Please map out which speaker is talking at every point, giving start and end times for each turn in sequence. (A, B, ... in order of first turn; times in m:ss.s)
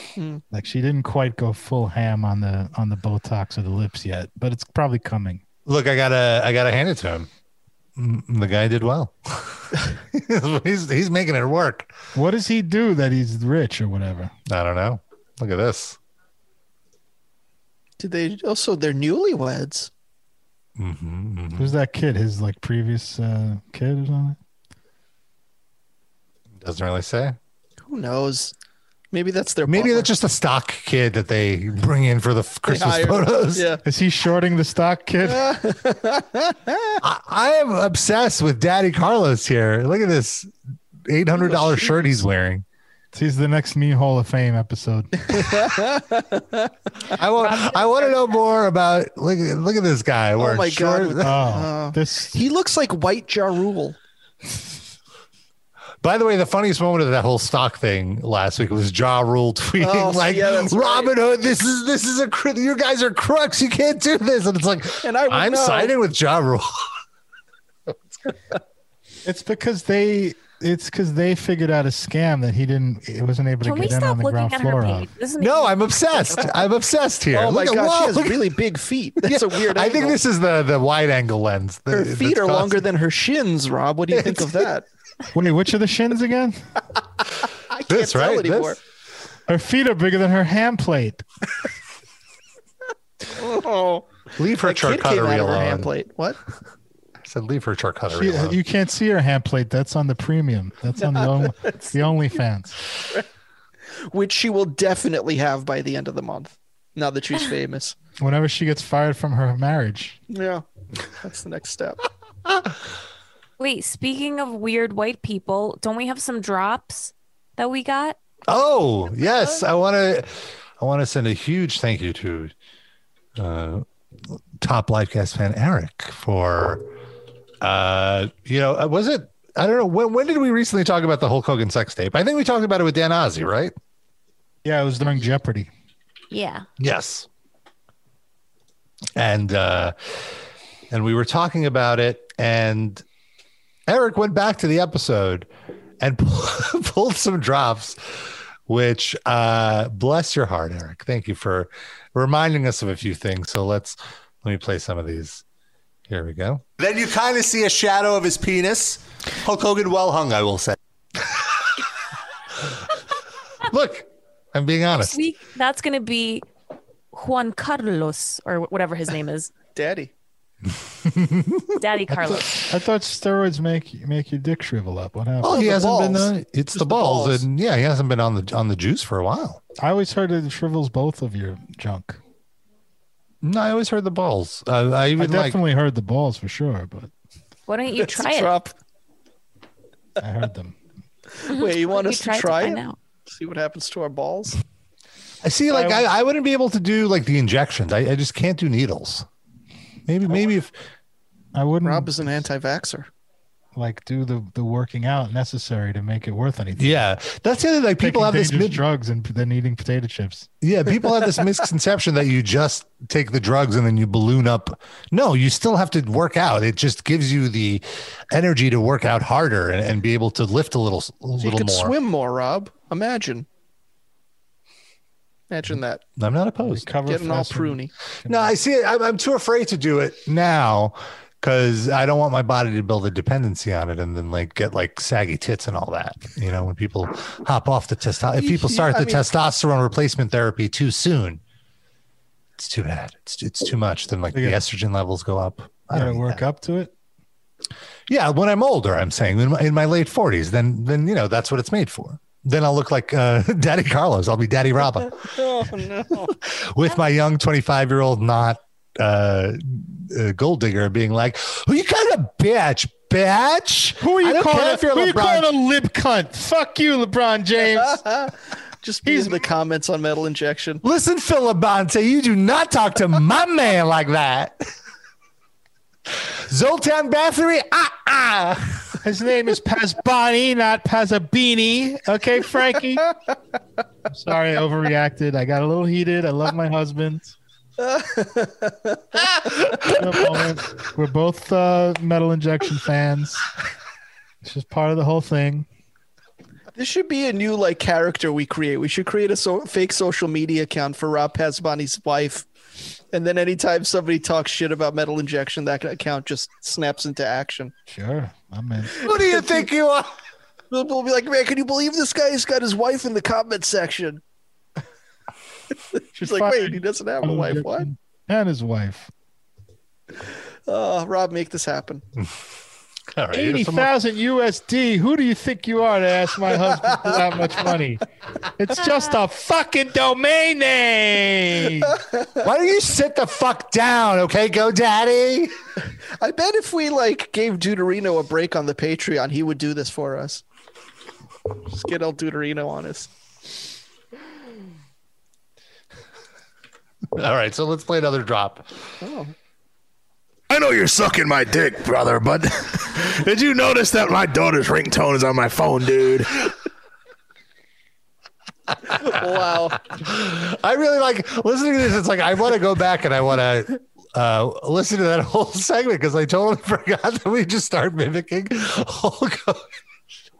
0:00.2-0:00.4 A
0:00.5-0:05.4 B
0:05.6-0:07.3 C
0:08.0-0:11.9 C
0:12.1-0:14.3 B
0:14.5-0:16.0 C
0:18.0-0:19.9 A
0:20.8-0:21.8 C
0:21.6-0:24.4 B
0:26.5-0:27.4 C
0:27.8-0:28.5 A
0:29.1-0:30.1 A
0:29.6-0:33.7 C
0:32.7-0:33.8 A
0:33.8-0:35.5 B
0:35.2-0:37.0 A
0:37.0-0:40.5 C
0:41.0-0:42.6 C
0:41.4-0:41.9 A
0:43.1-0:45.6 B
0:45.2-0:46.7 A
0:47.1-0:51.4 C
0:47.4-0:48.2 D
0:50.4-0:54.0 A
0:51.2-0:52.4 B
0:56.0-1:06.9 C
0:59.8-1:01.1 A
1:05.0-1:05.9 A
1:07.9-1:08.4 C
1:09.2-1:15.1 B
1:13.6-1:15.8 D
1:15.4-1:18.6 C
1:17.3-1:20.2 A
1:19.2-1:22.8 C
1:21.9-1:24.8 A
1:24.1-1:24.7 C
1:25.3-1:26.6 B
1:27.7-1:28.8 A
1:27.9-1:28.8 C
1:29.5-1:31.2 B
1:33.3-1:36.4 A
1:34.4-1:35.9 C
1:37.2-1:38.6 C
1:38.1-1:42.8 B
1:41.0-1:42.0 A
1:43.0-1:43.2 A
1:43.9-1:47.9 A
1:48.2-1:50.2 B
1:50.3-1:50.6 A
1:51.2-1:52.0 A
1:53.6-1:58.2 D
1:58.5-2:02.5 C
2:03.4-2:03.8 C
2:04.6-2:06.9 C
2:07.6-2:13.7 C
2:14.6-2:15.7 B
2:16.3-2:16.6 D
2:16.8-2:17.3 C
2:19.2-2:19.9 C
2:20.9-2:23.0 C
2:23.9-2:25.5 C
2:26.0-2:35.4 C
2:36.1-2:41.8 C
2:43.6-2:45.2 C
2:45.0-2:46.4 D
2:47.1-2:49.5 D
2:49.7-2:50.1 A
2:51.0-2:51.8 C
2:51.8-2:52.5 D
2:52.1-2:55.6 B
2:55.4-2:59.6 C
2:55.4-2:57.4 A
2:59.8-3:02.2 B
3:03.4-3:05.6 C
3:05.2-3:07.1 B
3:07.7-3:08.5 D
3:08.0-3:08.7 A
3:10.2-3:10.8 B
3:11.4-3:14.6 A
3:11.5-3:13.0 D
3:15.4-3:19.3 C
3:15.7-3:16.0 B
3:20.1-3:20.7 C
3:21.5-3:22.2 B
3:21.8-3:23.1 A
3:23.7-3:27.0 B
3:26.8-3:28.8 C
3:28.0-3:30.5 B
3:30.6-3:41.9 C
3:41.4-3:43.5 A
3:45.5-3:46.0 A
3:46.2-3:46.9 C
3:46.6-3:48.5 B
3:47.0-3:47.9 A
3:48.2-4:01.4 C
3:58.3-3:59.2 A
4:02.6-4:06.4 C
4:04.3-4:04.6 B
4:05.9-4:06.9 B
4:08.1-4:25.5 C
4:15.2-4:16.3 A
4:24.0-4:28.0 B
4:27.9-4:30.8 A
4:29.0-4:29.4 B
4:30.8-4:34.6 C
4:36.1-4:39.0 C
4:39.0-4:43.1 B
4:44.1-4:47.3 B
4:47.8-4:50.0 A
4:49.8-4:53.5 B
4:54.4-4:55.6 B
4:56.7-5:02.5 A
5:03.1-5:07.7 A
5:07.9-5:09.0 B
5:08.9-5:09.7 A
5:09.0-5:10.1 C
5:10.7-5:14.2 A
5:15.9-5:17.9 A
5:16.2-5:19.1 B
5:20.7-5:22.0 A
5:23.1-5:23.9 C
5:23.3-5:28.0 B
5:26.6-5:27.1 A
5:28.6-5:32.0 B
5:31.8-5:32.4 A
5:32.4-5:35.5 C
5:36.2-5:40.4 A
5:41.7-5:43.1 A
5:47.1-5:48.7 C
5:49.0-5:49.3 A
5:50.5-5:56.5 E
5:58.9-5:59.8 A
5:58.9-6:09.7 C